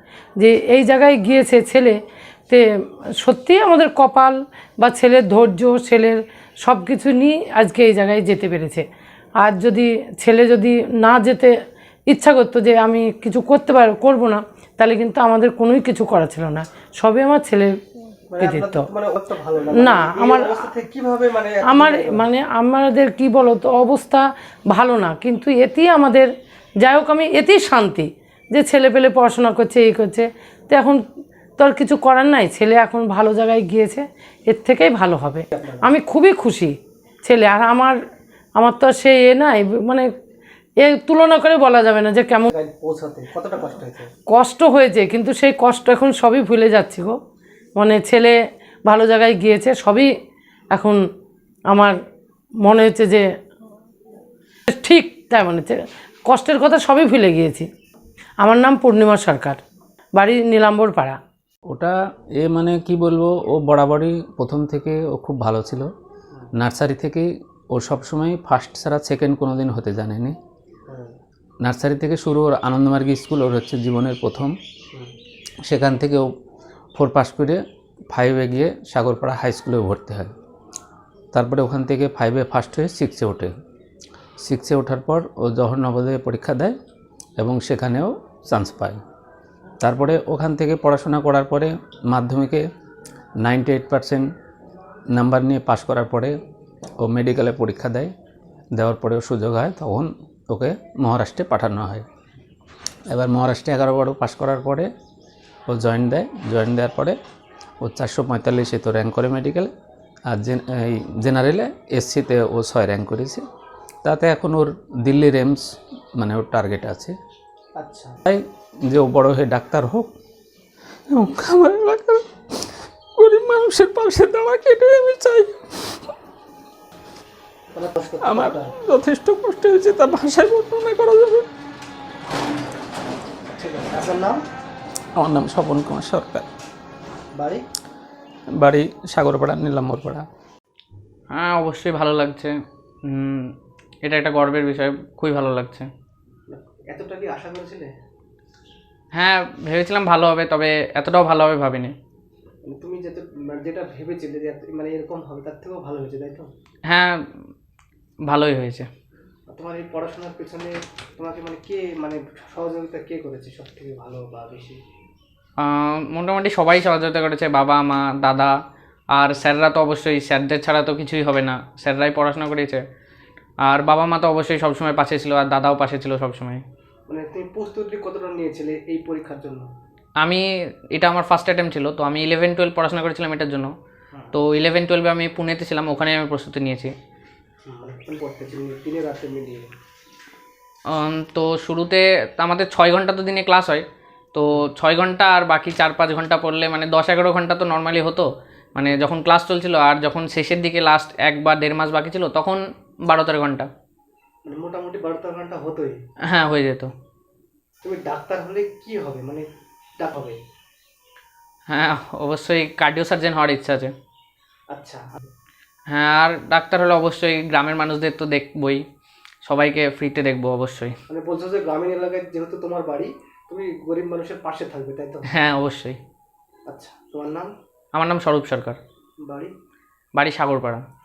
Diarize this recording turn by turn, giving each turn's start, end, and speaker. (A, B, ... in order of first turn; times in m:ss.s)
0:00.4-0:02.0 A
0:03.2-0:08.8 A
0:09.4-0:11.5 A
0:12.1-0:17.7 A
0:18.3-0:22.2 B
0:18.4-0:18.9 A
0:19.7-0:20.6 A
0:21.6-0:26.3 A
0:26.8-0:31.0 A
0:31.6-0:38.0 A
0:35.5-0:35.9 B
0:38.6-0:40.1 A
0:40.8-0:42.5 A
0:42.5-0:44.1 B
0:44.3-0:47.2 A
0:47.8-0:50.1 A
0:50.7-0:51.0 A
0:52.6-0:53.2 A
0:54.7-0:57.7 A
0:58.4-0:59.6 A
1:00.2-1:01.2 A
1:01.7-1:05.9 C
1:06.6-1:10.4 C
1:10.9-1:11.1 B
1:11.6-1:14.5 C
1:15.7-1:16.3 C
1:17.0-1:17.6 C
1:18.1-1:20.3 C
1:21.3-1:23.5 C
1:24.4-1:26.8 C
1:27.4-1:29.0 C
1:29.8-1:32.6 C
1:33.4-1:34.3 C
1:35.2-1:36.4 C
1:37.0-1:38.1 C
1:38.8-1:42.1 C
1:43.1-1:44.9 C
1:45.7-1:47.2 C
1:47.8-1:49.7 C
1:50.3-1:53.4 C
1:54.0-1:55.6 C
1:56.2-1:57.2 C
1:57.8-1:58.2 B
1:58.2-2:00.1 C
2:01.1-2:06.1 C
2:07.7-2:08.7 B
2:08.2-2:11.5 C
2:13.5-2:14.4 B
2:15.2-2:16.5 C
2:17.3-2:17.6 B
2:18.6-2:20.2 C
2:21.3-2:22.5 D
2:23.1-2:23.5 D
2:24.0-2:25.9 D
2:26.5-2:27.9 B
2:29.2-2:31.9 D
2:32.6-2:36.5 B
2:36.9-2:37.2 D
2:38.3-2:38.9 D
2:39.5-2:44.8 B
2:45.6-2:48.5 D
2:49.2-2:52.8 D
2:53.7-2:56.6 D
2:57.1-2:59.7 B
3:00.2-3:03.7 D
3:04.3-3:06.9 D
3:07.7-3:09.7 B
3:10.9-3:23.7 D
3:24.4-3:26.0 B
3:26.3-3:26.9 D
3:27.8-3:29.5 B
3:30.0-3:30.4 B
3:31.7-3:33.9 D
3:34.7-3:35.3 B
3:35.9-3:38.8 D
3:39.4-3:40.9 D
3:41.1-3:45.3 B
3:45.3-3:46.0 D
3:46.7-3:47.5 B
3:47.9-3:48.8 D
3:49.2-3:49.5 B
3:50.2-3:50.8 D